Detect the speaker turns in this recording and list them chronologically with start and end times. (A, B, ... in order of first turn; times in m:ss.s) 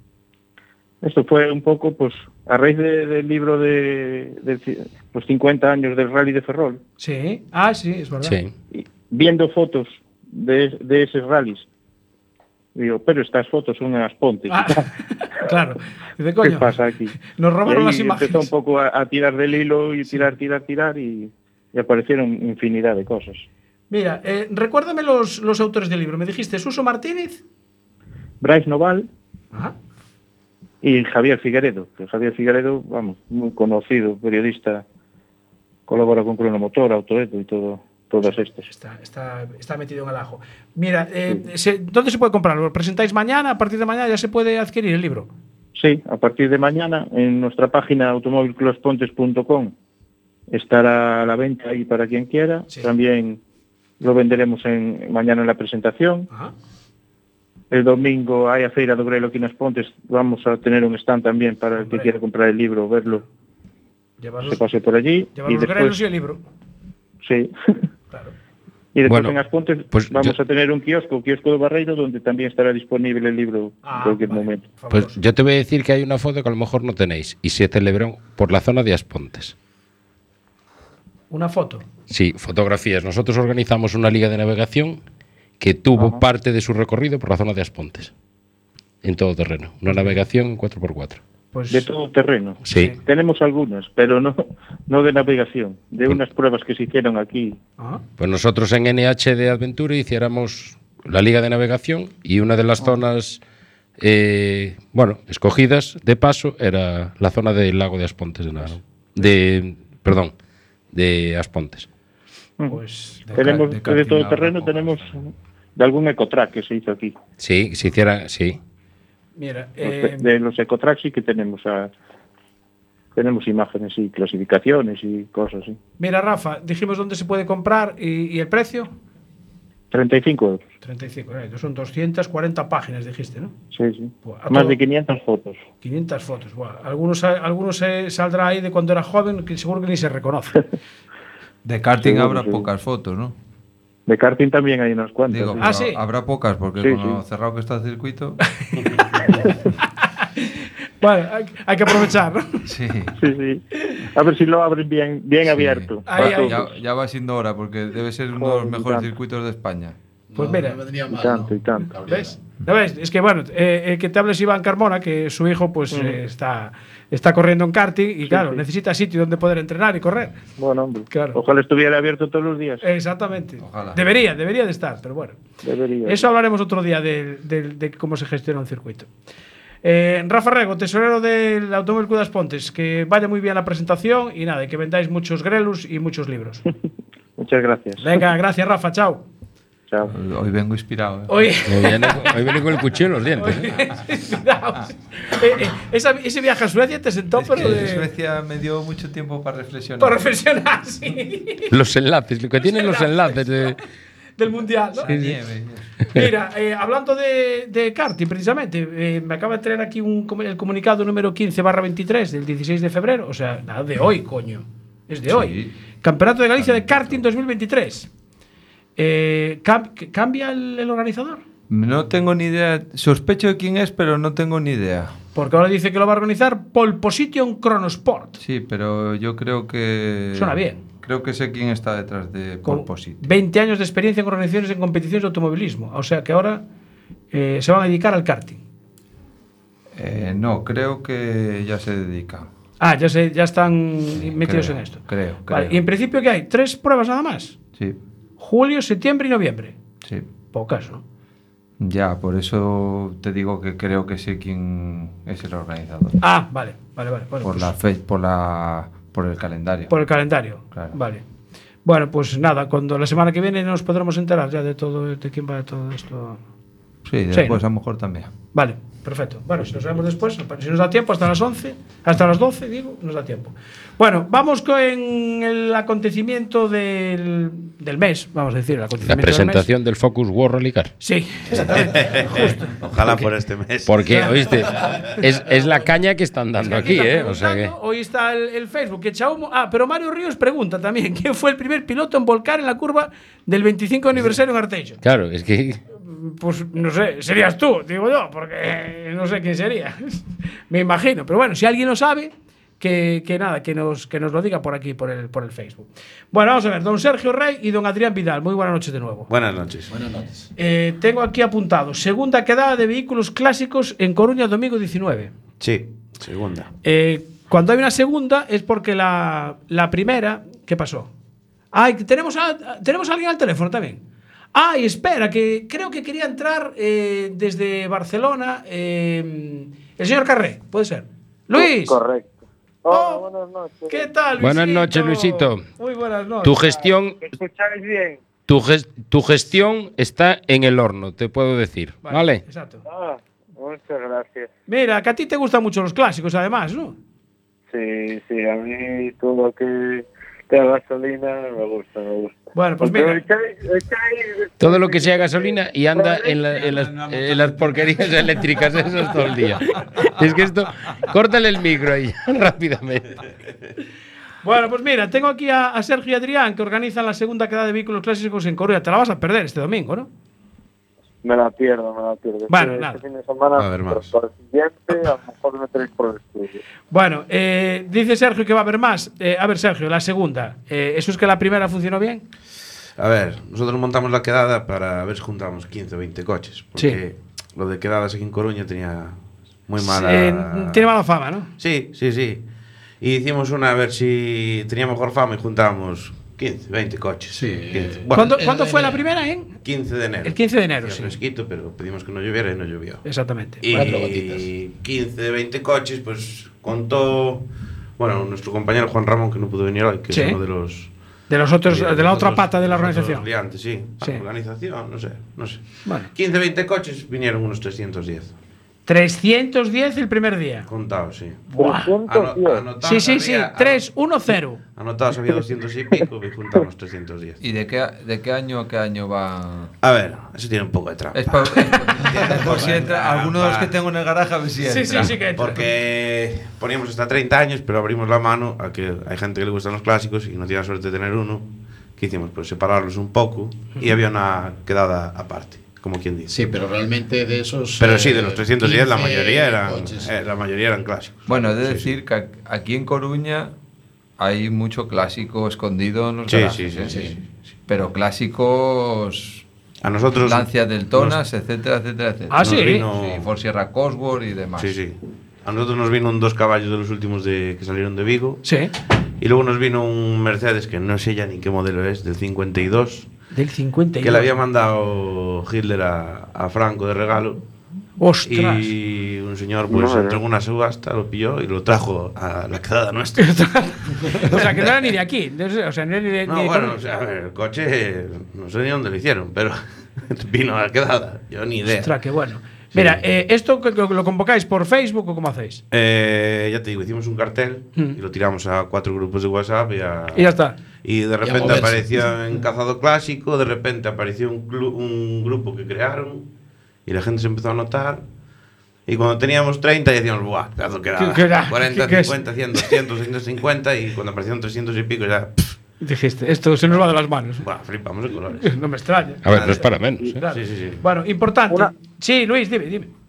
0:01.0-0:06.8 A
0:07.0-0:08.4 B
0:08.2-0:08.5 C
0:08.7-0:11.7 A
0:12.7-0:14.9 A
0:14.5-0:18.5 B
0:16.4-0:23.4 A
0:23.9-0:27.4 B
0:28.4-0:29.1 A
0:30.8-0:34.8 A
0:35.9-0:38.7 A
0:38.6-0:45.3 B
0:45.7-0:49.7 A
0:50.5-0:53.4 A
0:54.0-0:56.3 A
0:57.7-1:03.2 A
1:01.8-1:02.2 B
1:04.2-1:04.7 B
1:04.4-1:06.0 A
1:05.3-1:06.4 B
1:07.2-1:07.5 A
1:08.9-1:14.7 A
1:09.0-1:10.3 C
1:13.8-1:15.2 B
1:14.9-1:19.5 C
1:21.3-1:21.8 B
1:22.1-1:25.0 C
1:25.6-1:28.1 C
1:26.0-1:26.2 A
1:29.0-1:31.2 C
1:29.9-1:30.1 B
1:31.5-1:31.9 B
1:31.7-1:37.6 A
1:32.6-1:33.0 C
1:32.7-1:33.0 B
1:38.2-1:43.4 C
1:44.0-1:50.3 C
1:50.9-1:51.9 C
1:52.7-1:53.7 B
1:53.3-1:55.2 D
1:53.3-1:57.2 A
1:57.4-1:58.6 C
1:59.4-2:00.3 B
1:59.8-2:01.9 A
2:03.2-2:05.8 A
2:06.0-2:08.9 B
2:09.9-2:10.6 A
2:10.8-2:13.5 B
2:13.7-2:15.6 A
2:14.2-2:14.8 B
2:15.8-2:20.6 B
2:21.6-2:23.4 D
2:22.0-2:22.6 A
2:24.1-2:25.7 A
2:25.3-2:28.4 D
2:25.6-2:26.0 B
2:26.8-2:27.2 A
2:30.2-2:32.6 B
2:32.6-2:33.2 D
2:33.2-2:36.6 A
2:35.5-2:40.0 D
2:36.0-2:36.6 B
2:38.3-2:39.1 A
2:40.3-2:42.4 E
2:40.4-2:40.8 B
2:41.1-2:41.9 A
2:42.1-2:50.4 B
2:45.9-2:46.2 A
2:48.3-2:48.6 A
2:50.6-2:52.8 A
2:51.1-2:51.4 B
2:52.8-2:55.4 B
2:53.6-2:54.0 D
2:55.6-2:56.3 A
2:56.0-2:59.1 B
2:59.8-3:06.6 B
3:07.4-3:08.1 A
3:08.0-3:09.2 B
3:10.1-3:11.4 D
3:11.3-3:12.6 B
3:11.7-3:13.7 C
3:13.4-3:18.1 B
3:17.4-3:20.2 D
3:20.0-3:21.7 B
3:21.7-3:23.8 C
3:22.6-3:23.7 B
3:24.4-3:25.2 B
3:25.1-3:25.9 D
3:25.1-3:25.3 C
3:26.1-3:38.1 B
3:35.3-3:35.7 D
3:36.6-3:37.2 D
3:39.0-3:41.4 B
3:41.7-3:45.1 D
3:45.3-3:48.4 B
3:48.4-3:53.3 D
3:50.3-3:50.8 B
3:52.6-3:56.6 B
3:57.3-3:58.6 B
3:59.9-4:02.5 D
4:02.8-4:07.6 B
4:04.1-4:05.8 D
4:08.4-4:09.8 B
4:10.5-4:11.0 B
4:11.8-4:16.2 D
4:16.2-4:17.7 B
4:17.4-4:19.9 D
4:19.9-4:21.2 B
4:20.7-4:21.0 D
4:21.8-4:26.4 B
4:27.0-4:28.3 D
4:27.3-4:27.6 B
4:28.5-4:39.7 B
4:39.0-4:40.9 C
4:41.0-4:42.7 B
4:41.6-4:44.2 F
4:43.9-4:47.7 C
4:44.1-4:44.4 B
4:46.6-4:55.0 B
4:55.0-4:55.8 C
4:56.0-5:09.3 B
5:09.3-5:09.9 F
5:09.9-5:10.5 E
5:10.6-5:15.3 B
5:15.6-5:16.7 F
5:16.8-5:21.1 B
5:21.7-5:24.0 B
5:24.5-5:32.0 B
5:31.5-5:34.1 G
5:32.9-5:33.2 B
5:33.9-5:36.8 B
5:34.4-5:35.6 C
5:36.4-5:37.2 C
5:37.2-5:38.2 G
5:38.5-5:42.4 C
5:42.0-5:42.8 B
5:42.8-5:44.5 G
5:44.7-5:46.9 B
5:47.7-5:56.7 G
5:52.5-5:53.2 B
5:54.6-6:03.2 C
6:04.4-6:10.1 B
6:11.2-6:16.6 G
6:12.5-6:13.0 B
6:13.6-6:14.1 F
6:16.9-6:22.2 B
6:23.0-6:30.9 F
6:29.8-6:31.5 B
6:31.6-6:32.4 F
6:33.0-6:38.3 F
6:37.3-6:39.0 E
6:38.1-6:39.6 B
6:39.6-6:43.0 F
6:40.2-6:41.2 B
6:43.0-6:43.6 B
6:43.6-6:47.4 F
6:43.7-6:44.5 E
6:48.0-6:50.9 F
6:50.1-6:50.4 B
6:51.3-6:53.3 B
6:51.6-6:58.3 F
6:58.9-7:00.7 B
7:00.7-7:01.5 F
7:01.5-7:01.9 B
7:01.5-7:02.7 G
7:02.0-7:03.8 F
7:02.8-7:04.6 B
7:04.8-7:07.4 F
7:07.4-7:09.7 D
7:09.8-7:13.7 F
7:11.1-7:15.2 D
7:11.5-7:11.9 B
7:14.6-7:15.6 B
7:15.3-7:26.3 F
7:26.3-7:30.1 E
7:27.8-7:31.9 F
7:31.3-7:33.5 D
7:34.2-7:37.0 D
7:36.3-7:37.1 F
7:36.9-7:37.2 E
7:37.7-7:39.4 D
7:39.8-7:41.2 F
7:40.2-7:44.8 D
7:42.3-7:42.9 B
7:42.4-7:43.3 F
7:44.6-7:48.4 F
7:48.4-7:48.7 B
7:49.2-7:53.1 F
7:53.3-7:54.3 B
7:54.0-7:57.4 F
7:58.0-7:58.7 B
7:58.2-8:03.3 F
7:59.7-8:00.2 G
8:03.2-8:06.8 B
8:04.2-8:04.4 F
8:06.2-8:11.9 F
8:11.7-8:15.6 B
8:15.7-8:20.3 F
8:20.1-8:20.6 B
8:20.8-8:26.3 F
8:21.2-8:22.1 E
8:26.8-8:28.0 F
8:28.9-8:35.6 F
8:31.0-8:32.7 B
8:35.8-8:37.4 B
8:37.4-8:38.5 F
8:38.4-8:42.9 B
8:39.2-8:40.2 C
8:39.3-8:39.7 F
8:40.2-8:40.8 F